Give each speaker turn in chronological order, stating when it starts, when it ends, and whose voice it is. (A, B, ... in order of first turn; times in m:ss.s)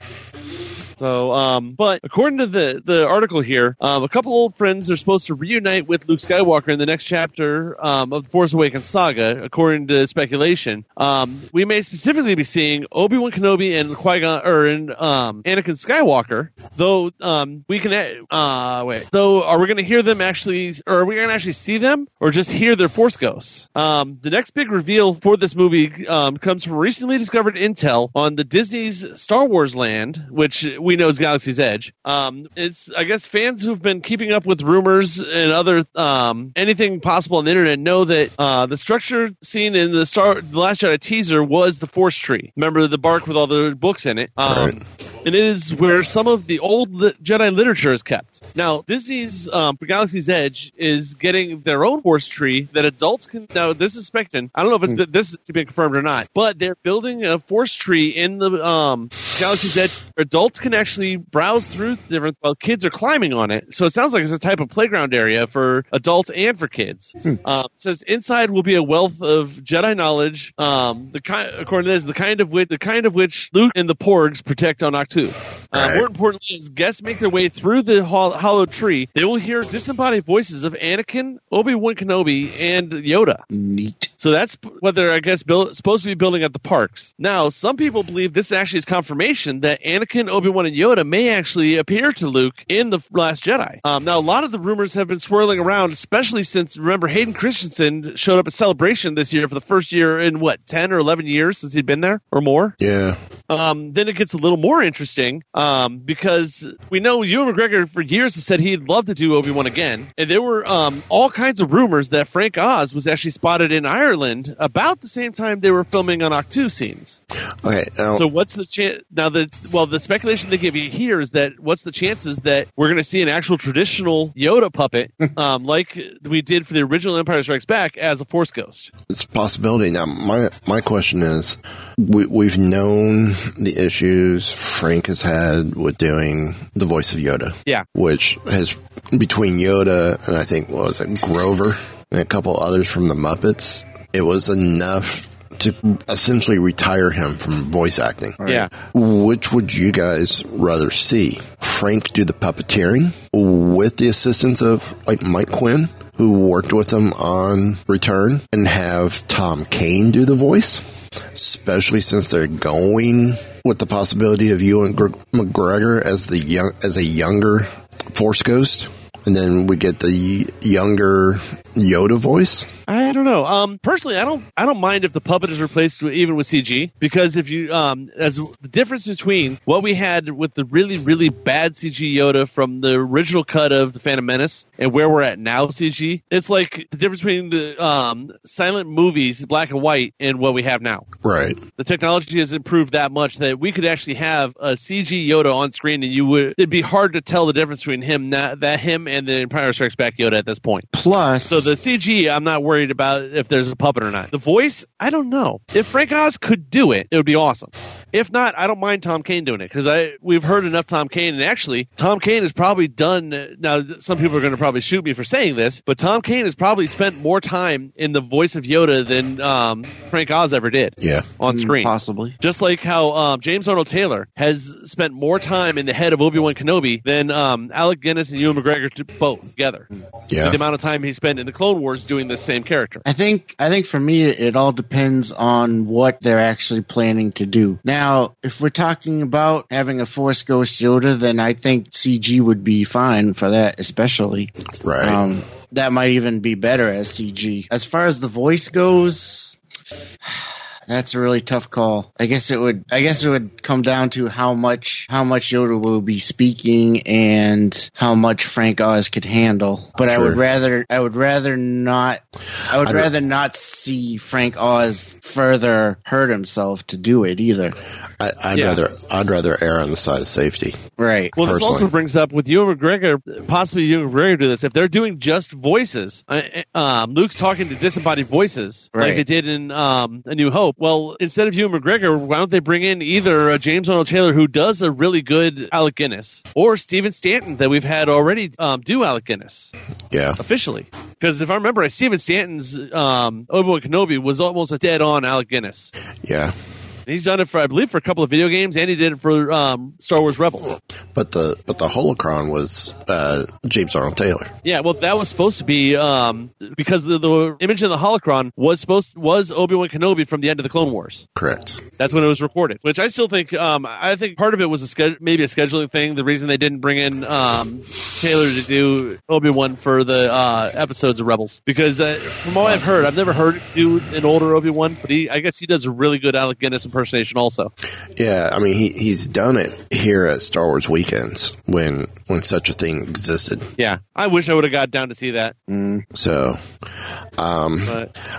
0:01.0-1:23.4 A
0:44.4-0:44.8 B
1:15.7-1:16.1 B
1:23.5-1:24.1 C
1:24.2-1:42.8 A
1:42.8-1:43.2 B
1:43.5-1:57.2 A
1:57.6-1:58.2 B
1:58.1-2:08.9 A
2:09.1-2:40.8 B
2:28.4-2:28.7 C
2:41.3-2:52.7 B
2:52.9-3:11.0 A
3:11.2-3:11.6 B
3:11.8-3:20.9 A
3:20.9-3:21.6 C
3:21.5-3:49.9 A
3:41.0-3:41.3 B
3:41.4-3:42.4 C
3:50.3-3:50.6 B
3:50.4-3:53.0 A
3:53.0-4:04.5 C
4:04.8-4:05.2 B
4:05.0-4:09.6 C
4:10.2-4:27.8 C
4:20.1-4:20.4 B
4:22.7-4:23.1 B
4:28.2-4:30.8 B
4:28.5-4:28.8 A
4:31.0-4:31.4 C
4:31.4-4:31.9 B
4:31.4-4:49.7 A
4:38.9-4:39.2 C
4:50.1-4:50.4 B
4:50.4-4:55.9 A
4:56.2-4:56.5 B
4:57.1-5:00.8 A
5:01.1-5:04.5 B
5:04.6-5:11.2 A
5:11.3-5:11.8 B
5:12.0-5:27.7 A
5:28.2-5:33.7 B
5:33.8-5:35.5 A
5:35.7-5:36.0 C
5:36.1-5:36.6 B
5:37.4-5:38.0 B